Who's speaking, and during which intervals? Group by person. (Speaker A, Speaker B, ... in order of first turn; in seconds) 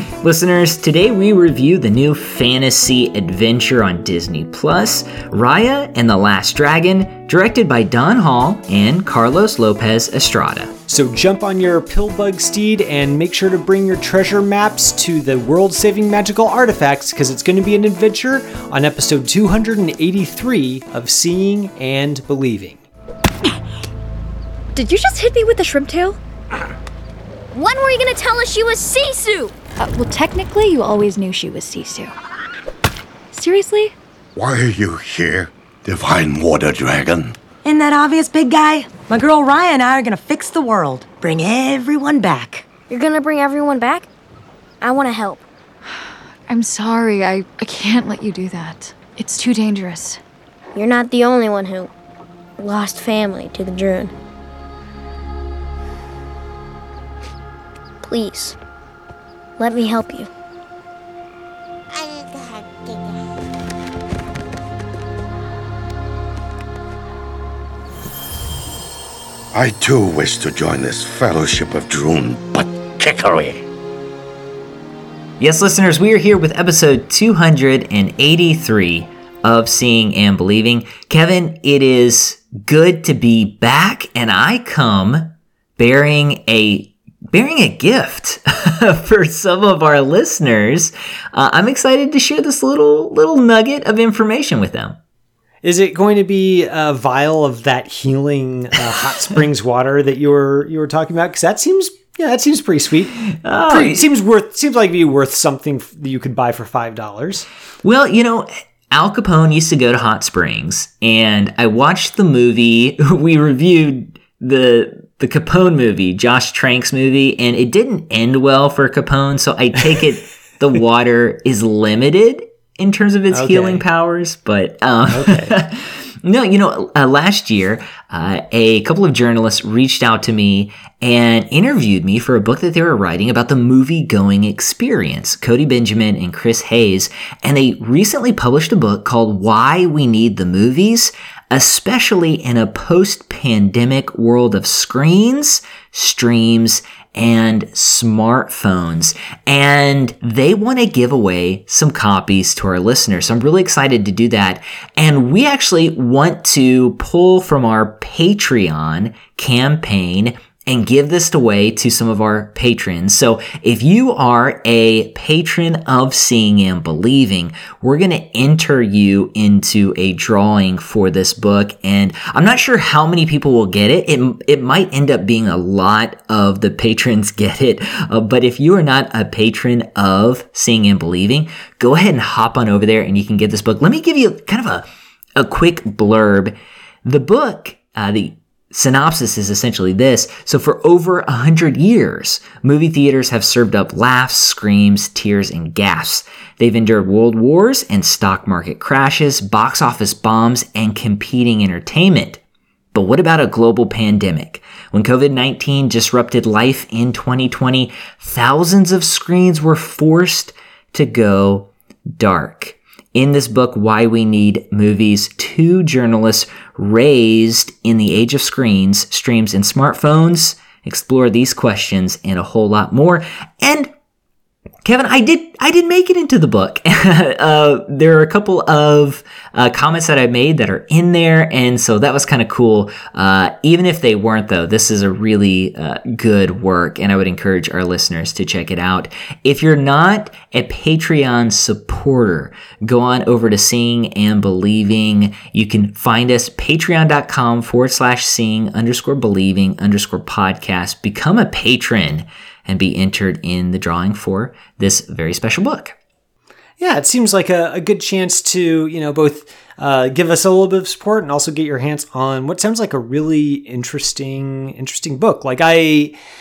Speaker A: 0.2-10.7, 75.4-95.0, 103.3-104.0, 107.8-202.4, 202.9-223.9, 224.8-255.9
Speaker B: 10.9-22.8, 95.6-107.5, 123.3-123.8, 125.1-125.6, 256.8-266.1
Speaker C: 24.7-26.2, 29.8-32.1, 33.3-33.9, 45.9-50.2
Speaker D: 27.5-29.5, 42.9-44.1, 44.8-45.4, 50.7-51.9, 52.6-54.1, 58.0-58.6, 59.6-60.3
Speaker E: 34.3-37.4, 69.5-73.6
Speaker F: 37.6-42.7